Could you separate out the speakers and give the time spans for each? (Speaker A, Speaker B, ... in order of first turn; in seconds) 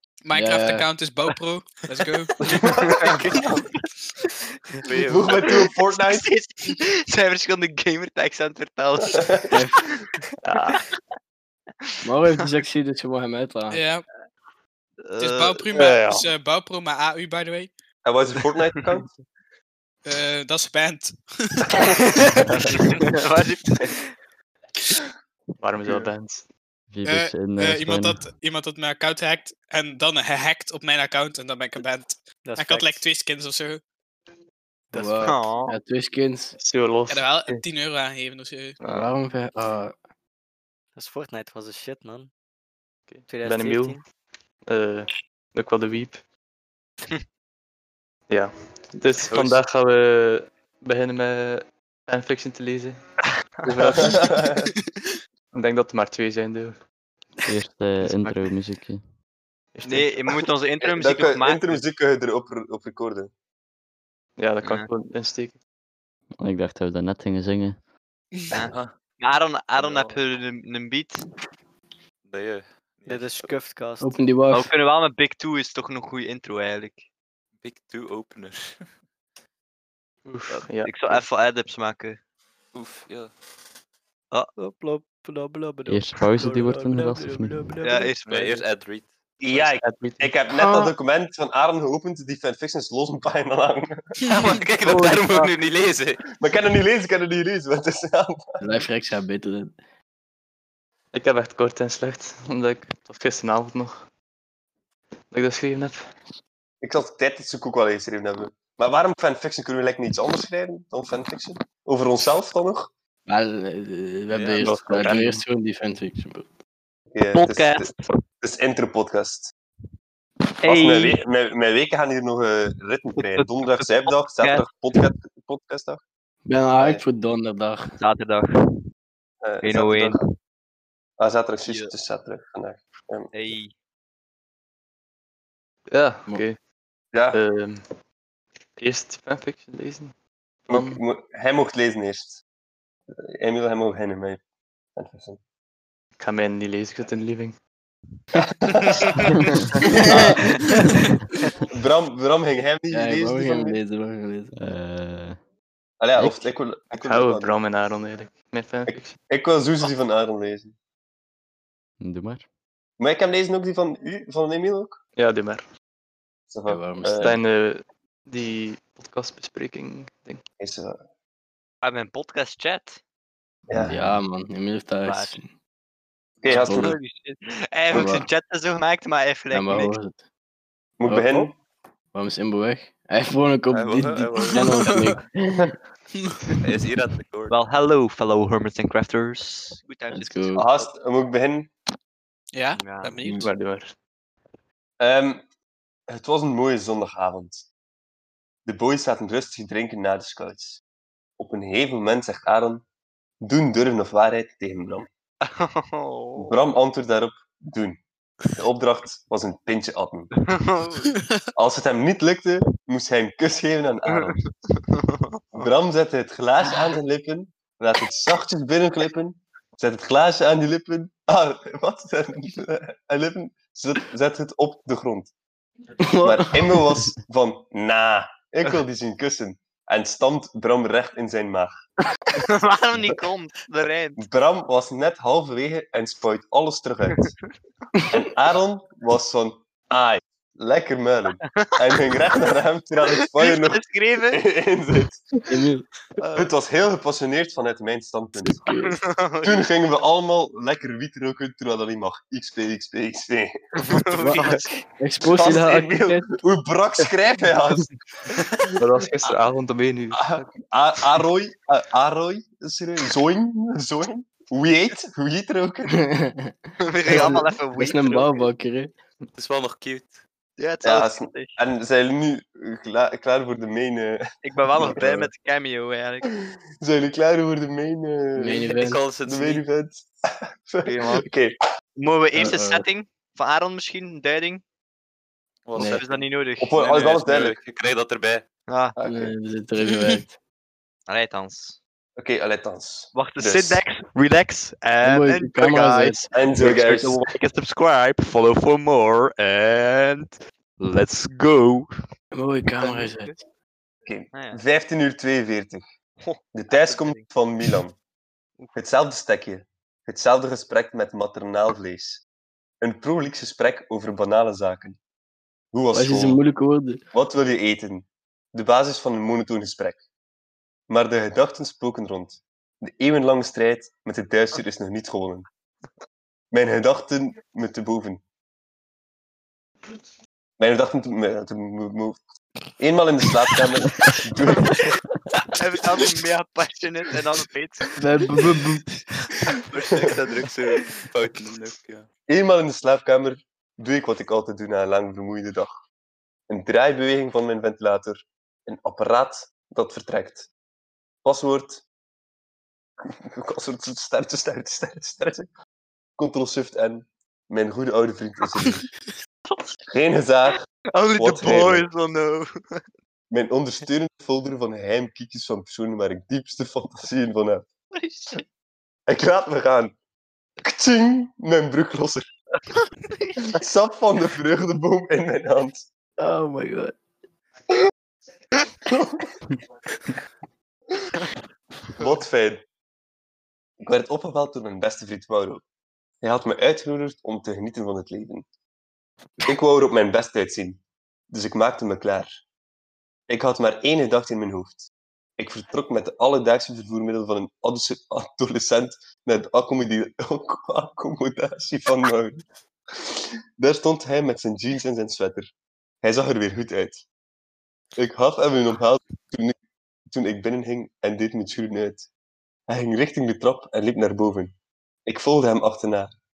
Speaker A: 0.2-2.3, 13.7-14.0, 15.2-17.7, 20.0-22.2, 27.0-33.8, 37.1-38.8, 186.1-186.7, 192.5-193.4
Speaker B: 0.3-0.9, 9.5-9.8, 12.0-13.8, 34.9-36.5, 38.9-40.0, 74.0-74.7, 84.8-85.9, 86.4-88.0, 90.6-90.9, 98.6-99.7, 113.3-116.5, 126.4-127.9, 152.9-154.5, 166.7-167.4, 173.9-175.5, 176.5-176.9, 177.9-178.3, 179.5-180.2, 181.1-181.5, 182.1-185.2, 190.1-190.6, 226.1-226.8, 245.5-245.8, 248.4-248.9, 254.2-256.3, 266.1-266.5, 267.1-268.9, 278.4-279.0, 282.3-282.8, 285.8-286.0, 289.0-290.4, 295.0-296.2, 302.3-303.4, 315.9-317.0, 338.0-338.9, 376.2-376.9
Speaker C: 2.4-3.5, 5.1-6.3, 9.0-9.5, 15.8-16.1, 18.0-19.1, 53.9-54.7, 60.8-63.3, 89.4-94.2, 96.3-98.8, 106.8-112.9, 117.1-117.9, 118.4-119.5, 120.6-126.0, 126.7-127.0, 129.4-130.2, 131.2-133.3, 137.1-137.4, 140.7-142.4, 143.2-144.4, 144.9-145.4, 148.4-149.2, 149.8-150.8, 151.7-153.8, 156.0-157.5, 158.9-160.7, 163.0-165.0, 166.5-167.4, 170.6-171.0, 173.7-174.0, 176.4-177.0, 181.0-181.6, 190.5-191.7, 195.0-195.5, 196.1-197.7, 198.7-200.8, 201.4-202.8, 203.4-205.1, 206.4-208.0, 208.6-210.4, 211.6-214.3, 215.5-225.3, 226.2-231.9, 234.2-237.3, 238.1-245.2, 246.3-248.6, 249.4-254.6, 255.2-257.9, 260.1-266.1, 270.8-274.2, 274.8-275.3, 276.3-281.6, 286.6-287.6, 288.9-289.3, 292.2-293.8, 296.3-297.3, 304.0-305.8, 306.5-307.9, 308.7-312.2, 312.8-315.0, 315.7-316.4, 317.1-320.0, 320.9-325.5, 326.5-328.2, 330.6-332.2, 332.8-334.8, 342.3-345.8, 346.5-350.5, 351.2-351.8, 353.0-355.5, 356.2-358.9, 359.9-361.9, 363.3-367.7, 369.1-370.0, 370.6-372.3, 373.6-375.8, 378.9-379.4, 382.0-382.6, 383.8-385.6, 386.2-388.4, 389.4-392.4, 393.3-402.4, 403.0-405.5, 406.0-407.0, 408.0-409.5, 410.1-412.1, 412.7-414.5, 415.1-416.1
Speaker D: 2.5-3.8, 5.5-9.6, 10.6-10.9, 15.0-16.2, 22.7-23.9, 35.0-35.7, 58.0-58.4, 59.8-61.8, 68.5-71.2, 74.5-77.0, 80.5-82.2, 87.8-88.7, 94.8-95.5, 117.3-118.0, 120.6-121.2, 123.2-125.0, 128.0-128.5, 129.6-130.3, 131.6-131.9, 133.3-133.7, 171.8-173.0, 175.0-175.3, 176.5-179.9, 187.5-190.6, 192.7-193.3, 205.6-206.5, 210.7-211.1, 232.4-234.2, 243.4-244.4, 246.2-246.5, 248.9-249.7, 253.9-254.6, 266.8-268.5, 270.6-271.6, 274.4-276.3, 280.8-281.2, 282.0-284.6, 285.7-287.1, 288.7-288.9, 291.1-291.8, 293.1-301.9, 302.8-303.3, 304.3-304.6, 306.2-307.2, 334.5-334.8, 335.6-337.9, 339.4-340.8, 360.9-362.4, 367.9-368.4
Speaker E: 4.8-5.5, 49.3-49.6, 68.7-69.0, 69.8-70.2, 72.3-73.5, 77.6-78.8, 82.7-83.3, 88.2-89.8, 94.3-96.2, 183.7-184.9, 186.6-187.6, 269.3-270.2, 278.8-279.6, 285.6-288.4, 341.1-342.1
Speaker F: 25.6-26.5, 36.6-37.6, 38.8-39.1, 43.1-44.0, 44.6-46.2, 48.3-53.0, 53.6-54.4, 55.5-56.9, 59.7-60.5, 64.4-65.6, 80.2-81.2, 89.7-90.4, 101.1-104.1, 105.3-106.1, 114.4-115.4, 135.9-136.6, 137.3-137.8, 138.8-140.1, 140.7-141.0, 146.2-147.6, 156.9-159.2, 165.2-165.6, 167.1-170.4, 193.3-193.9, 258.8-260.5
Speaker G: 26.9-28.2, 57.5-59.1, 66.4-67.8, 85.8-87.9, 154.5-155.4, 162.0-162.4
Speaker H: 32.4-33.0, 40.9-42.3, 43.3-44.0, 73.0-74.1, 84.6-85.8, 86.5-86.8